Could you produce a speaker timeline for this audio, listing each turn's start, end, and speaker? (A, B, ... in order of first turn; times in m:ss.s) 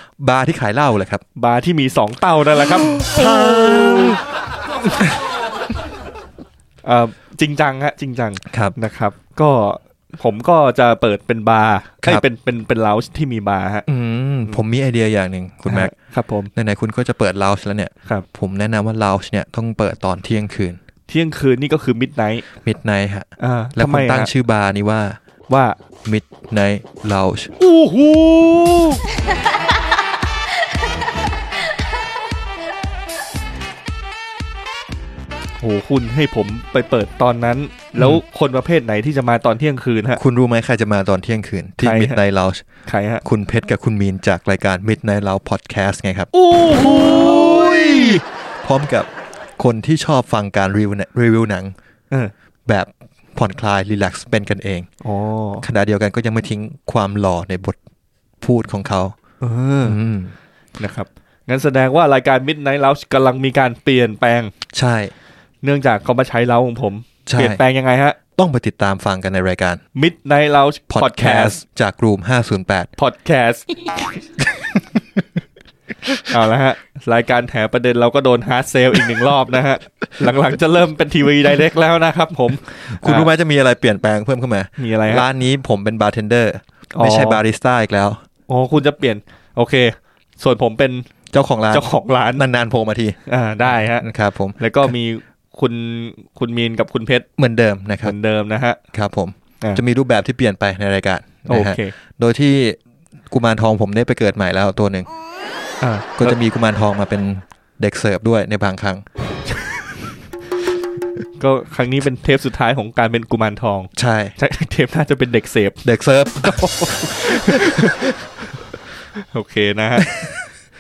0:00.2-0:01.2 A
0:01.4-0:03.3 B
0:03.0-0:04.2 A
0:06.8-0:13.8 B
0:08.5-0:08.8 A
0:13.9-0:15.9 A
0:15.7-0:16.5 B
0:16.6-0:20.8 A
0:21.1-0:22.5 B
0:22.6-0:25.2 A
0:23.4-0:24.3 B
0:25.5-0:25.8 B
0:26.0-0:27.5 A
0:27.6-0:29.0 B
0:35.6-0:40.2 B
0:38.0-0:38.2 A
0:40.2-0:42.6 A
0:41.8-0:42.2 B
0:42.9-0:43.2 B
0:43.2-0:51.7 A
0:46.3-0:48.2 B
0:52.7-0:54.9 A
0:55.0-0:55.7 B
0:55.6-0:57.8 A
0:58.4-0:59.2 A
0:59.4-1:00.0 B
0:59.8-1:00.4 A
1:00.8-1:04.5 B
1:04.7-1:05.1 A
1:05.6-1:08.2 B
1:07.3-1:07.6 A
1:08.4-1:09.8 A
1:10.0-1:11.6 B
1:10.9-1:12.9 A
1:13.0-1:13.7 B
1:14.6-1:15.0 A
1:16.3-1:23.3 B
1:22.9-1:28.2 A
1:24.8-1:25.3 B
1:26.9-1:27.4 B
1:28.5-1:31.1 B
1:31.3-1:33.2 A
1:31.7-1:32.4 B
1:33.3-1:34.1 B
1:34.0-1:34.9 A
1:34.6-1:37.3 B
1:37.4-1:38.2 A
1:38.0-1:38.8 B
1:38.9-1:42.8 A
1:41.5-1:42.0 B
1:43.3-1:45.1 A
1:45.8-1:46.4 B
1:46.2-1:49.0 A
1:51.4-1:55.8 B
1:54.0-1:54.4 A
1:55.8-1:57.9 A
1:56.4-1:58.3 B
1:59.1-2:00.3 B